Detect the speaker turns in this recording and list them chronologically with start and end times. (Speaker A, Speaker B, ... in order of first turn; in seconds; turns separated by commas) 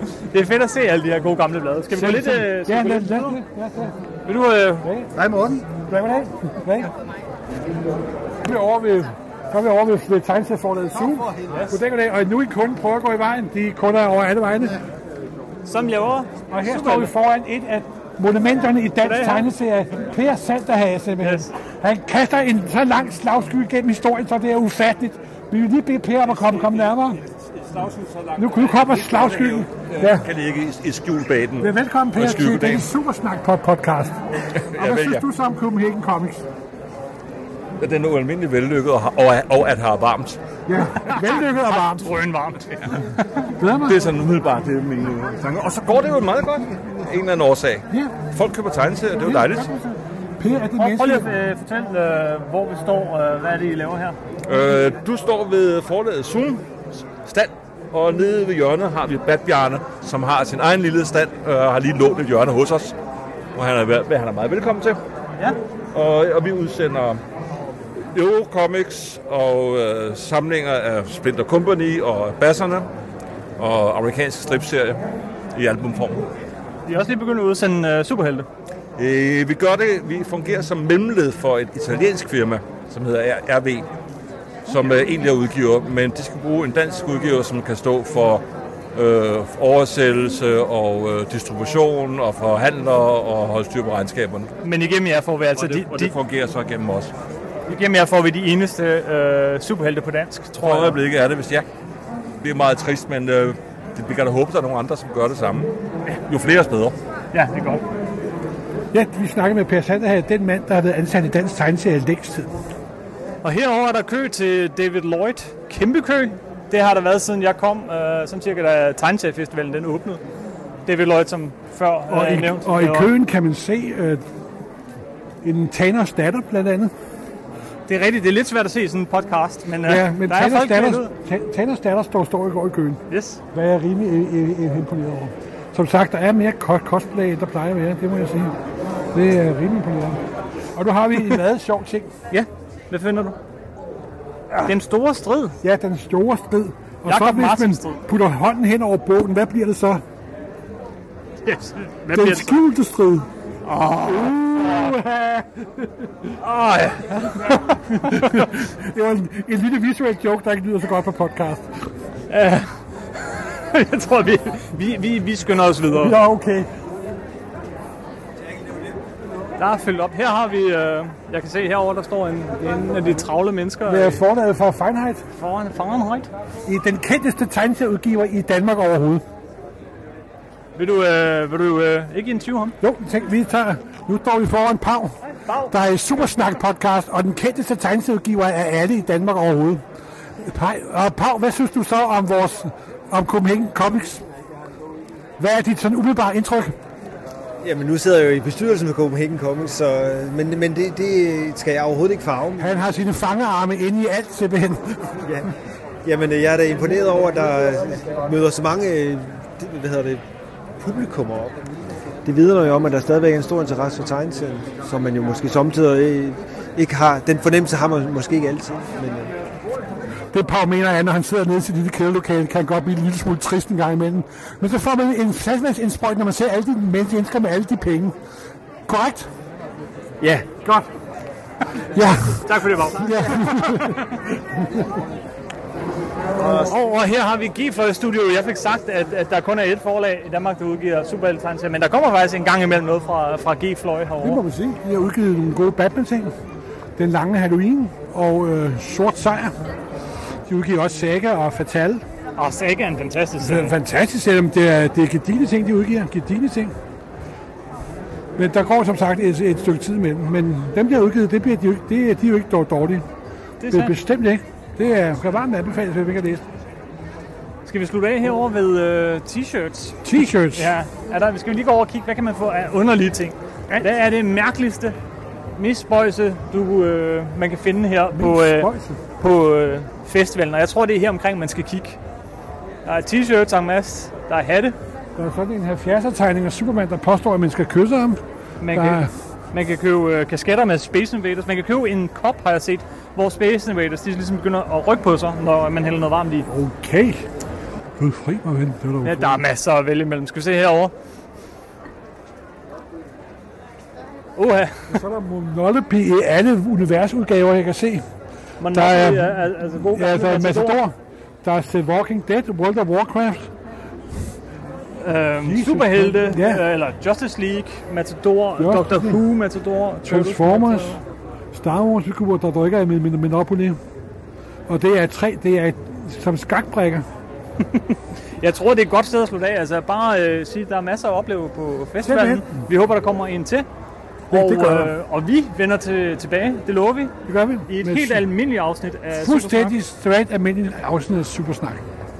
Speaker A: 0.3-3.4, Speaker B: 1.9-3.9, Speaker A: 4.2-4.9, Speaker B: 4.8-6.9, Speaker C: 5.2-5.6, Speaker B: 8.4-14.8, Speaker A: 11.5-11.8, Speaker A: 15.6-17.1, Speaker B: 16.5-27.2, Speaker A: 19.0-19.5, Speaker A: 21.2-21.5, Speaker D: 27.6-32.9, Speaker B: 28.4-30.3, Speaker B: 31.6-34.1, Speaker D: 34.6-35.2, Speaker B: 34.7-36.4, Speaker D: 37.8-40.4, Speaker B: 40.7-42.1, Speaker A: 41.0-43.5, Speaker B: 43.6-44.0, Speaker D: 43.9-49.7, Speaker B: 47.9-48.2, Speaker B: 49.2-51.3, Speaker A: 50.8-54.2, Speaker D: 54.5-56.6, Speaker D: 57.2-62.9, Speaker D: 63.5-65.0, Speaker D: 65.9-67.2, Speaker D: 68.1-72.9, Speaker D: 73.6-75.0, Speaker D: 75.5-76.3, Speaker A: 76.9-78.5, Speaker D: 79.0-83.8, Speaker D: 84.7-88.4, Speaker D: 88.9-94.5, Speaker A: 94.6-96.1, Speaker D: 95.5-97.1, Speaker A: 97.7-101.0, Speaker D: 100.6-101.7, Speaker D: 102.4-105.7, Speaker D: 106.3-106.9, Speaker A: 107.3-107.8, Speaker B: 108.9-112.5, Speaker A: 113.4-120.2, Speaker A: 120.8-123.1, Speaker B: 122.1-124.2, Speaker B: 125.4-126.9, Speaker A: 127.9-131.1, Speaker B: 129.8-138.6, Speaker A: 133.1-133.4, Speaker B: 139.1-140.2, Speaker B: 140.7-142.1, Speaker A: 142.3-143.3, Speaker A: 144.6-145.6, Speaker B: 145.6-150.0, Speaker A: 147.1-148.0, Speaker A: 151.4-152.6, Speaker B: 152.1-153.3, Speaker A: 153.7-154.9, Speaker B: 154.0-156.3, Speaker A: 156.4-158.5, Speaker B: 157.5-161.7, Speaker A: 162.3-162.7, Speaker A: 163.3-166.2, Speaker B: 165.9-166.7, Speaker A: 169.6-174.2, Speaker B: 173.8-175.2, Speaker A: 175.3-176.3, Speaker B: 176.7-179.2, Speaker A: 180.8-182.8, Speaker B: 182.8-189.8, Speaker A: 185.3-185.8, Speaker B: 190.4-194.2, Speaker B: 195.4-196.7, Speaker C: 197.6-202.7, Speaker B: 202.6-205.0, Speaker C: 205.2-205.5, Speaker C: 206.0-210.2, Speaker C: 210.8-211.6, Speaker C: 212.2-219.3, Speaker B: 220.3-228.1, Speaker B: 228.9-229.3, Speaker C: 230.2-230.5, Speaker B: 230.6-230.9, Speaker B: 231.9-234.8, Speaker A: 232.4-234.2, Speaker A: 236.4-244.4, Speaker B: 244.2-246.3, Speaker B: 247.0-249.6, Speaker B: 250.5-252.0, Speaker A: 252.4-253.8, Speaker B: 253.4-256.7, Speaker B: 258.4-263.1, Speaker A: 263.6-264.0, Speaker B: 263.7-266.4, Speaker A: 267.6-274.9, Speaker B: 270.0-270.7, Speaker A: 275.5-282.0, Speaker B: 278.1-279.0, Speaker A: 282.8-284.8, Speaker B: 285.2-288.2, Speaker A: 288.6-296.5, Speaker B: 288.7-289.1, Speaker B: 296.5-297.2, Speaker B: 298.0-299.4, Speaker A: 299.0-300.9, Speaker A: 304.4-305.0, Speaker B: 304.9-308.0, Speaker A: 308.6-310.8, Speaker B: 308.7-313.5, Speaker A: 315.0-321.0, Speaker B: 315.4-316.6, Speaker B: 318.6-319.2, Speaker B: 320.1-321.0, Speaker B: 321.5-323.8, Speaker B: 324.7-327.1, Speaker A: 327.7-333.7, Speaker B: 332.0-332.6, Speaker B: 334.3-334.9, Speaker A: 334.3-337.1, Speaker B: 337.3-338.3, Speaker A: 337.7-339.7, Speaker B: 339.1-341.8